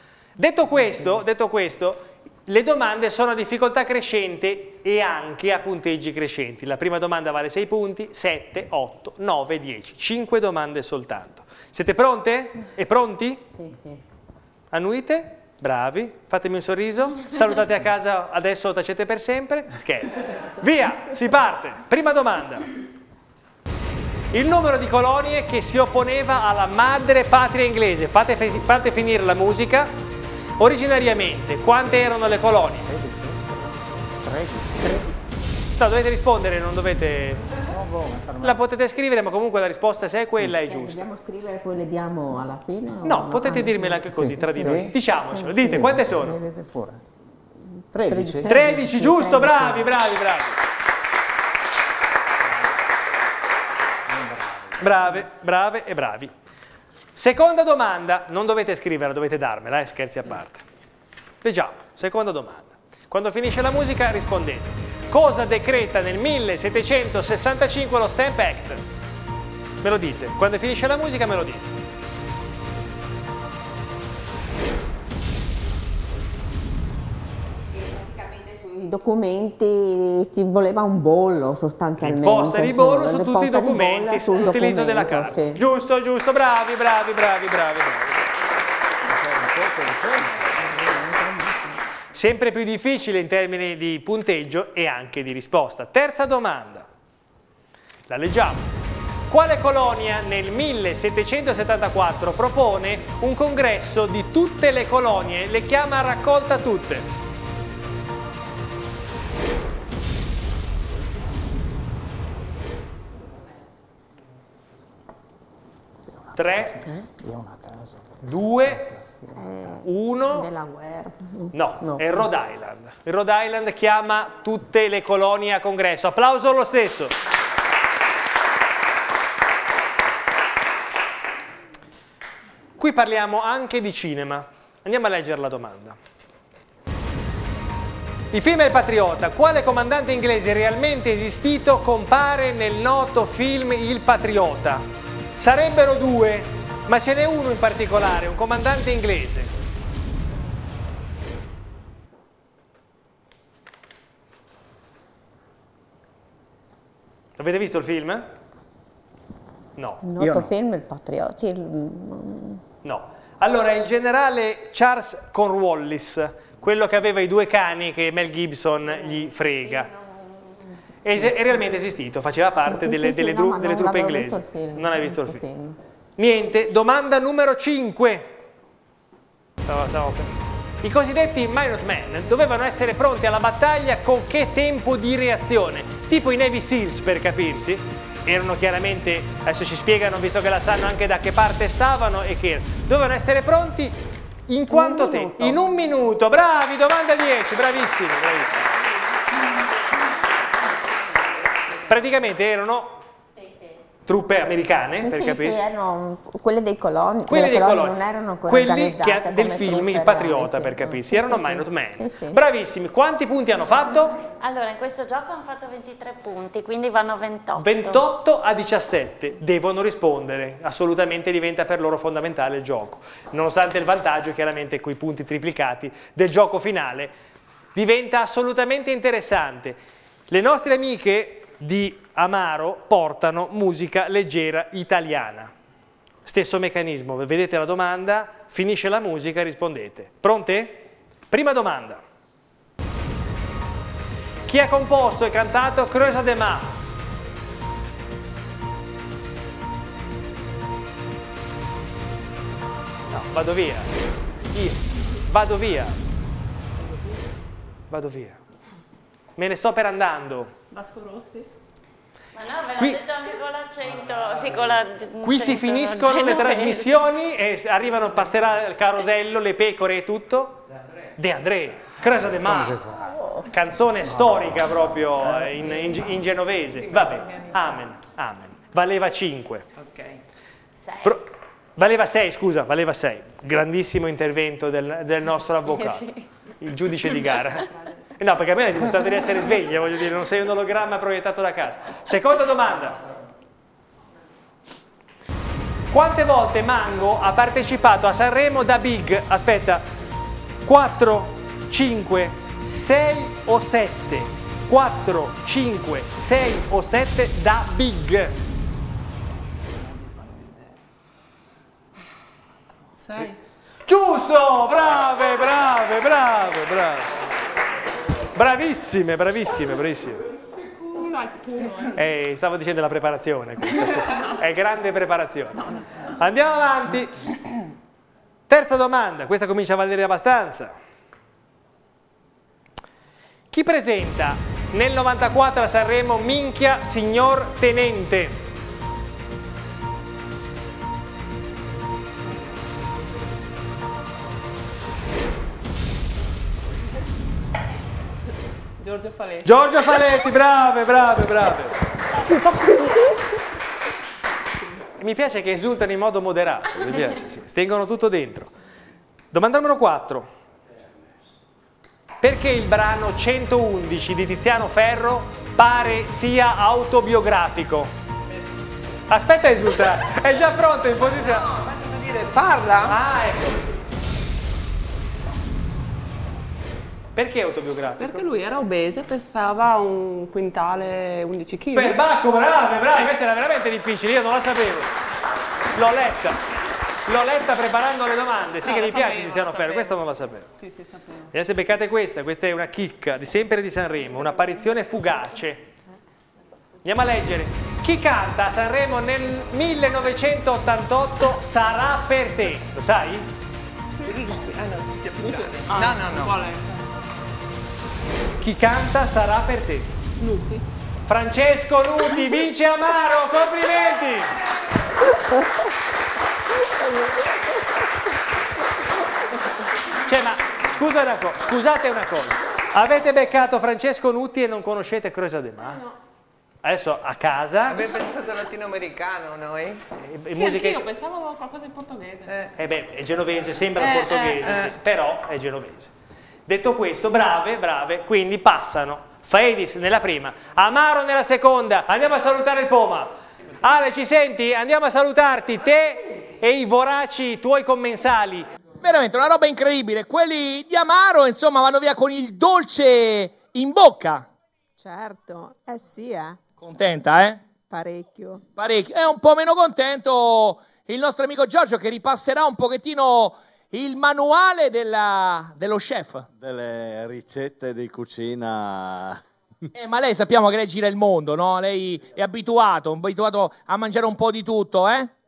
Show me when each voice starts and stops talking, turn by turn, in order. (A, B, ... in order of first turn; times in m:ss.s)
0:00.4-0:13.4 A
0:13.6-0:14.0 B
0:14.7-0:22.7 A
0:24.3-0:29.9 A
0:30.6-0:32.9 A
0:32.8-0:33.4 C
0:34.2-0:35.0 C
0:34.8-0:35.1 B
0:35.8-0:37.4 A
0:37.7-0:38.6 C
0:38.4-0:41.1 A
0:40.5-0:45.9 B
0:43.0-0:46.4 A
0:44.1-0:44.9 C
0:45.6-0:47.0 C
0:47.9-0:49.0 C
0:48.0-0:49.9 B
0:48.4-0:50.6 A
0:54.1-0:55.1 C
0:54.8-0:56.3 A
0:57.1-1:00.6 A
1:01.4-1:08.8 A
1:09.8-1:11.7 A
1:17.7-1:25.6 B
1:22.0-1:28.3 A
1:29.1-1:30.5 C
1:30.8-1:31.7 B
1:32.1-1:36.9 A
1:38.1-1:38.7 A
1:39.3-1:47.1 A
1:56.1-1:59.6 C
1:56.3-1:56.8 A
1:58.2-1:58.9 A
1:59.3-2:02.3 B
1:59.8-2:00.5 A
2:01.5-2:07.1 A
2:12.8-2:16.0 A
2:18.3-2:29.5 A
2:37.4-2:38.3 A
2:40.0-2:42.6 B
2:40.2-2:40.5 C
2:42.8-2:49.9 A
2:51.0-2:55.4 A
2:52.6-2:55.8 B
2:56.2-2:58.4 A
2:59.7-3:14.0 A
3:14.5-3:18.7 A
3:21.9-3:23.0 A
3:23.4-3:23.6 B
3:24.0-3:25.6 A
3:25.0-3:32.4 B
3:27.3-3:34.2 A
3:34.4-3:38.1 D
3:37.6-3:47.1 A
3:47.7-3:49.8 A
3:50.3-3:55.5 A
3:56.2-4:02.0 A
4:04.5-4:06.8 A
4:13.1-4:13.9 A
4:14.5-4:16.0 A
4:17.9-4:18.4 A
4:19.4-4:20.5 A
4:20.7-4:21.5 E
4:22.3-4:27.0 D
4:25.2-4:30.6 A
4:31.2-4:32.9 A
4:33.5-4:39.6 A
4:36.7-4:37.8 F
4:39.8-4:40.2 F
4:40.8-4:41.2 D
4:41.0-4:53.0 A
4:45.6-4:46.3 D
4:55.9-4:59.9 A
5:00.6-5:08.4 A
5:13.0-5:13.4 E
5:13.9-5:17.1 A
5:18.3-5:20.2 A
5:20.9-5:22.0 E
5:21.9-5:27.2 A
5:28.5-5:30.7 A
5:33.5-5:38.4 A
5:48.8-5:49.6 E
5:49.4-5:51.8 A
5:55.0-5:58.5 A
5:59.3-6:00.3 A
6:02.2-6:07.9 A
6:09.1-6:11.5 A
6:10.9-6:13.0 F
6:12.8-6:13.6 A
6:17.1-6:18.2 A
6:18.0-6:22.0 E
6:21.7-6:24.9 A
6:25.7-6:26.4 A
6:27.0-6:30.5 A
6:28.6-6:31.3 E
6:31.3-6:35.7 A
6:36.8-6:43.3 A
6:44.0-6:46.3 F
6:45.2-6:46.8 E
6:48.4-6:49.9 A
6:50.2-6:50.6 E
6:51.0-6:54.4 A
7:00.0-7:05.8 A
7:06.6-7:07.8 A
7:07.7-7:09.8 F
7:10.0-7:10.8 A
7:10.3-7:12.4 E
7:12.3-7:12.5 F
7:12.6-7:15.9 A
7:13.8-7:14.6 E
7:14.4-7:14.7 F
7:16.4-7:28.5 A
7:28.8-7:34.3 G
7:34.8-7:36.4 H
7:36.6-7:37.4 G
7:37.7-7:38.4 H
7:38.6-7:46.3 G
7:46.4-7:49.2 I
7:49.7-7:55.1 G